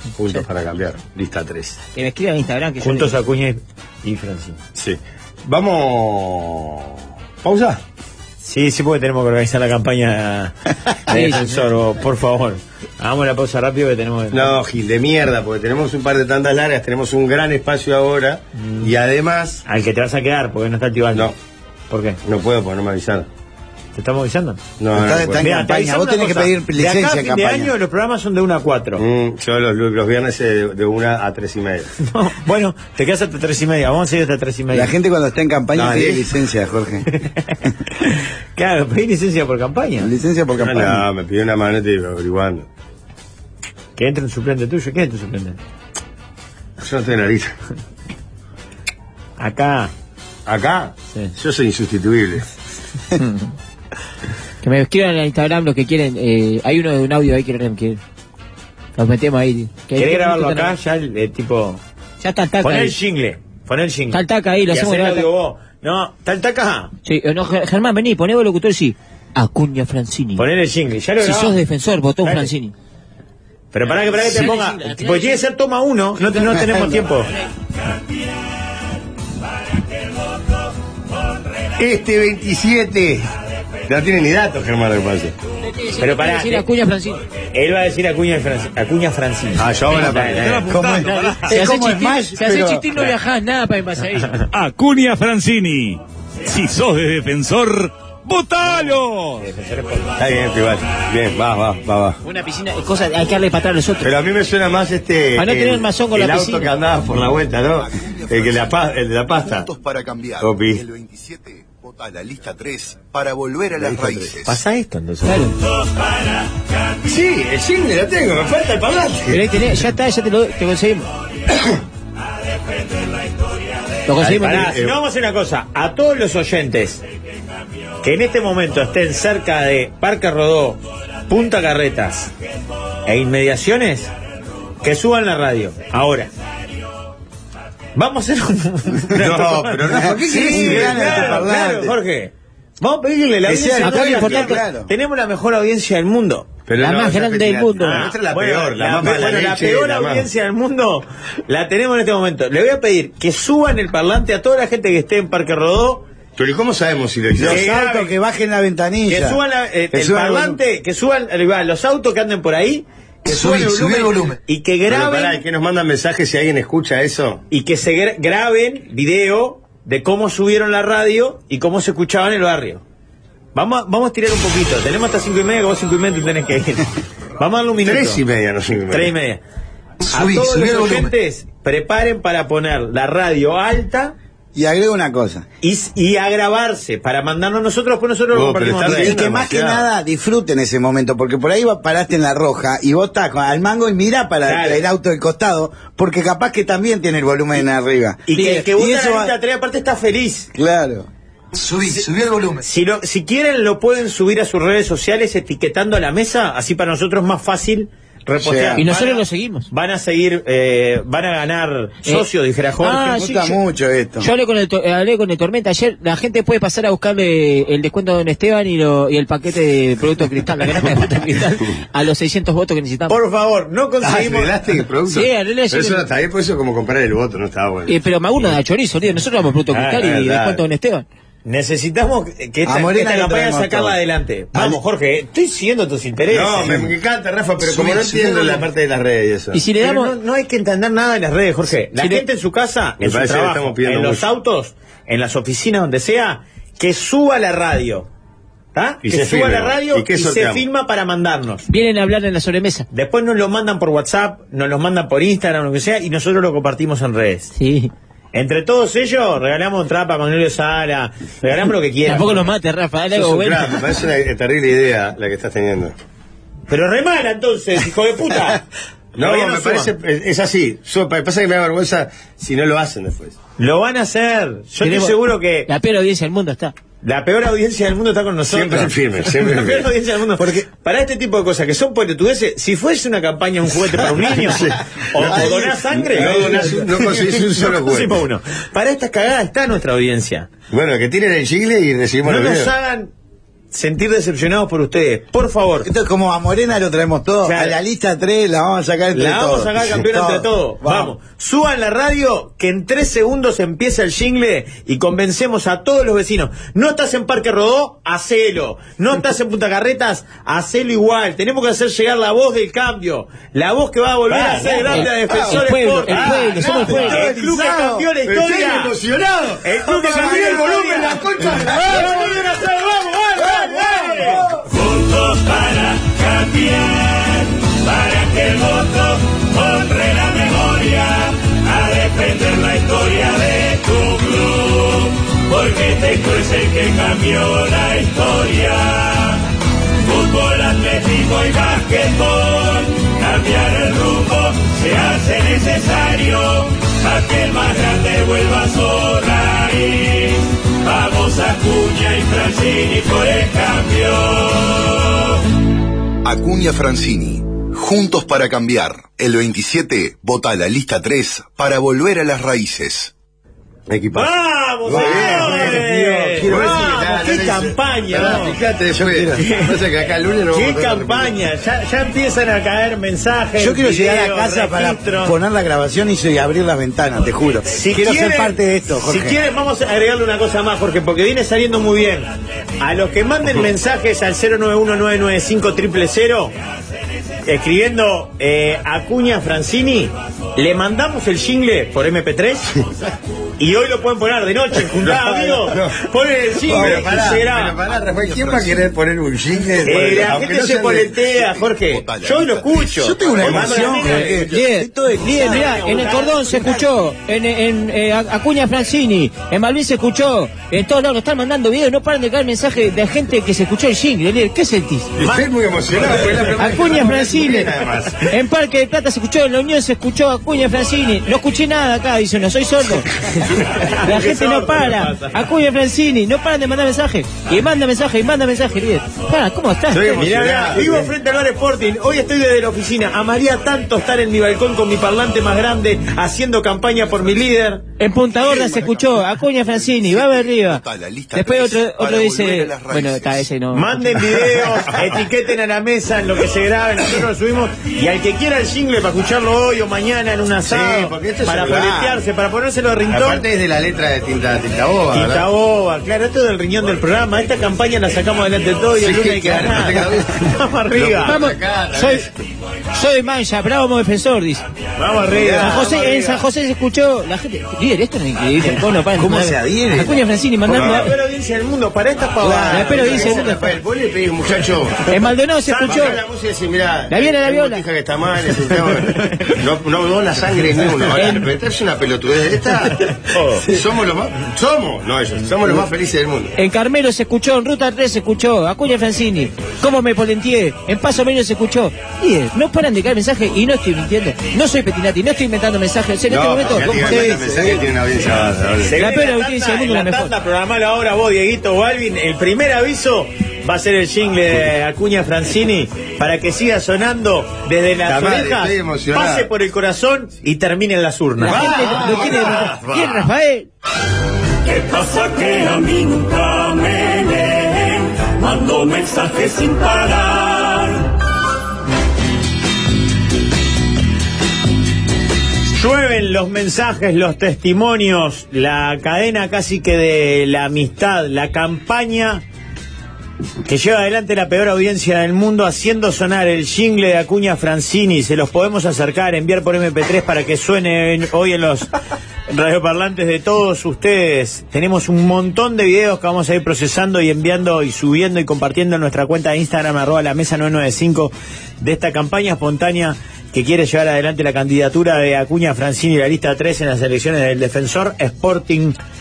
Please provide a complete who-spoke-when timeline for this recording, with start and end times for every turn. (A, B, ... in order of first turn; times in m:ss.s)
0:00.2-0:01.8 A
0:02.0-0:03.2 B
0:02.8-0:04.6 C
0:04.8-0:07.8 A
0:08.4-0:14.6 C
0:11.1-0:11.6 B
0:14.3-0:19.6 A
0:18.6-0:18.9 C
0:19.6-0:21.3 C
0:21.9-0:22.2 C
0:22.2-0:23.3 A
0:24.0-0:24.6 C
0:24.8-0:25.5 A
0:24.9-0:27.7 D
0:25.3-0:29.0 C
0:29.0-0:31.9 A
0:32.0-0:34.9 C
0:34.7-0:37.1 D
0:35.8-0:36.2 A
0:37.5-0:40.1 C
0:40.0-0:41.1 D
0:40.6-0:42.7 A
0:44.0-0:45.6 C
0:46.8-0:47.5 A
0:49.4-0:49.9 C
0:50.5-0:52.5 A
0:53.2-0:53.5 B
0:54.6-0:58.0 B
0:59.0-1:00.7 B
1:00.0-1:01.8 C
1:02.2-1:03.0 B
1:02.6-1:06.9 C
1:04.1-1:05.3 B
1:07.0-1:10.4 B
1:10.4-1:11.6 C
1:11.2-1:12.7 B
1:12.2-1:12.5 C
1:13.7-1:17.3 C
1:13.9-1:15.4 B
1:16.3-1:16.9 B
1:16.6-1:17.0 D
1:21.8-1:23.3 A
1:23.9-1:25.3 A
1:25.6-1:27.2 B
1:26.0-1:26.7 C
1:27.5-1:30.7 C
1:29.6-1:30.7 A
1:30.3-1:31.5 E
1:30.7-1:32.9 D
1:30.9-1:34.4 B
1:34.5-1:39.4 E
1:39.4-1:40.2 C
1:40.2-1:42.2 A
1:42.2-1:44.1 B
1:44.0-1:49.7 A
1:45.4-1:46.7 B
1:47.8-1:48.8 F
1:49.4-1:54.6 F
1:50.4-1:50.8 A
1:53.8-1:54.3 A
1:54.4-1:55.5 C
1:55.2-1:55.5 B
1:55.5-1:56.8 G
1:57.1-1:59.4 A
1:59.3-2:01.1 B
2:04.1-2:04.8 B
2:04.2-2:07.0 C
2:04.2-2:04.9 A
2:08.0-2:12.3 C
2:13.1-2:14.1 C
2:14.8-2:16.3 C
2:18.0-2:26.5 C
2:19.1-2:21.4 A
2:19.9-2:22.0 D
2:23.4-2:24.9 D
2:23.8-2:24.6 B
2:26.7-2:30.3 A
2:26.8-2:28.1 B
2:27.8-2:36.0 C
2:36.4-2:37.6 A
2:37.4-2:39.4 D
2:37.5-2:38.2 C
2:39.1-2:45.4 C
2:39.9-2:40.6 D
2:43.3-2:44.4 D
2:44.9-2:47.4 A
2:47.5-2:52.8 C
2:53.6-2:58.2 C
2:57.8-2:59.1 A
2:58.9-2:59.4 C
3:00.1-3:04.2 C
3:00.1-3:01.1 D
3:04.5-3:05.4 D
3:05.6-3:09.5 C
3:08.3-3:09.8 A
3:08.8-3:19.3 D
3:14.4-3:14.8 C
3:18.3-3:20.5 C
3:20.5-3:22.6 D
3:22.6-3:33.1 C
3:28.4-3:28.8 D
3:28.8-3:29.7 B
3:32.8-3:33.6 B
3:33.0-3:34.3 D
3:34.2-3:43.2 B
3:43.1-3:44.6 C
3:44.0-3:48.6 A
3:45.1-3:46.1 B
3:47.9-3:51.0 B
3:49.7-3:50.0 C
3:50.0-3:50.6 A
3:51.4-3:56.8 C
3:52.6-3:54.0 D
3:54.5-3:54.8 D
3:56.3-3:59.6 A
3:56.6-3:56.9 D
3:57.6-3:58.6 D
3:59.5-4:00.1 B
3:59.8-4:08.1 C
4:02.0-4:02.2 B
4:03.0-4:04.2 A
4:08.7-4:11.6 C
4:09.0-4:10.6 A
4:11.7-4:12.9 B
4:12.9-4:17.5 C
4:17.6-4:17.9 B
4:18.3-4:22.5 C
4:22.0-4:23.8 B
4:23.1-4:25.9 A
4:26.7-4:28.6 C
4:29.2-4:33.4 A
4:29.2-4:29.9 C
4:33.6-4:35.7 C
4:34.8-4:36.7 B
4:37.0-4:50.5 C
4:38.5-4:39.9 A
4:44.2-4:48.2 A
4:45.3-4:46.7 D
4:50.7-4:52.7 A
4:52.2-4:53.1 C
4:53.7-4:55.9 C
4:55.8-5:01.2 D
4:57.4-4:57.8 C
4:59.1-5:19.0 C
5:14.3-5:17.2 A
5:14.9-5:17.3 B
5:16.8-5:18.1 D
5:18.2-5:22.4 A
5:19.6-5:24.5 C
5:20.0-5:22.2 D
5:23.6-5:24.4 D
5:24.6-5:39.4 G
5:40.0-5:55.2 G
5:56.2-6:03.1 F
6:03.9-6:11.4 A
6:04.1-6:08.6 C
6:04.9-6:06.9 D
6:08.9-6:09.4 D
6:09.4-6:09.7 C
6:10.5-6:15.4 C
6:13.6-6:19.4 D
6:17.7-6:22.3 C
6:22.8-6:26.5 C
6:27.4-6:32.8 C
6:33.6-6:37.8 C
6:34.9-6:36.0 A
6:36.6-6:41.2 A
6:38.4-6:38.7 F
6:39.8-6:44.5 C
6:41.3-6:43.6 F
6:43.0-6:46.9 D
6:43.4-6:44.4 A
6:44.4-6:55.1 B
6:45.4-6:46.4 C
6:55.2-6:58.3 A
6:56.6-7:03.1 B
7:03.6-7:05.4 C
7:04.0-7:10.3 B
7:09.9-7:11.1 A
7:10.1-7:17.8 C
7:18.0-7:24.4 B
7:18.4-7:23.5 F
7:23.7-7:33.4 C
7:30.6-7:32.2 A
7:33.1-7:35.5 A
7:35.1-7:41.4 C
7:39.0-7:42.3 A
7:41.2-7:42.3 B
7:42.9-7:44.6 B
7:45.0-7:46.4 C
7:45.3-7:45.8 D
7:45.5-7:51.2 B
7:49.1-7:50.2 D
7:50.7-7:51.2 A
7:50.7-7:53.4 C
7:52.4-7:53.1 D
7:52.7-7:53.7 B
7:52.7-7:55.2 A
7:55.1-7:56.2 B
7:55.7-7:56.2 C
7:55.9-8:06.6 A
7:57.1-7:57.8 B
8:01.1-8:01.4 B
8:03.4-8:03.6 C
8:06.6-8:17.7 B
8:16.3-8:19.0 A
8:16.8-8:17.8 D
8:18.9-8:32.1 C
8:18.9-8:20.3 B
8:28.0-8:29.5 A
8:31.4-8:33.7 B
8:31.4-8:33.3 A
8:34.6-8:41.1 G
8:45.7-8:52.4 C
8:53.6-9:01.9 C
9:02.5-9:19.0 C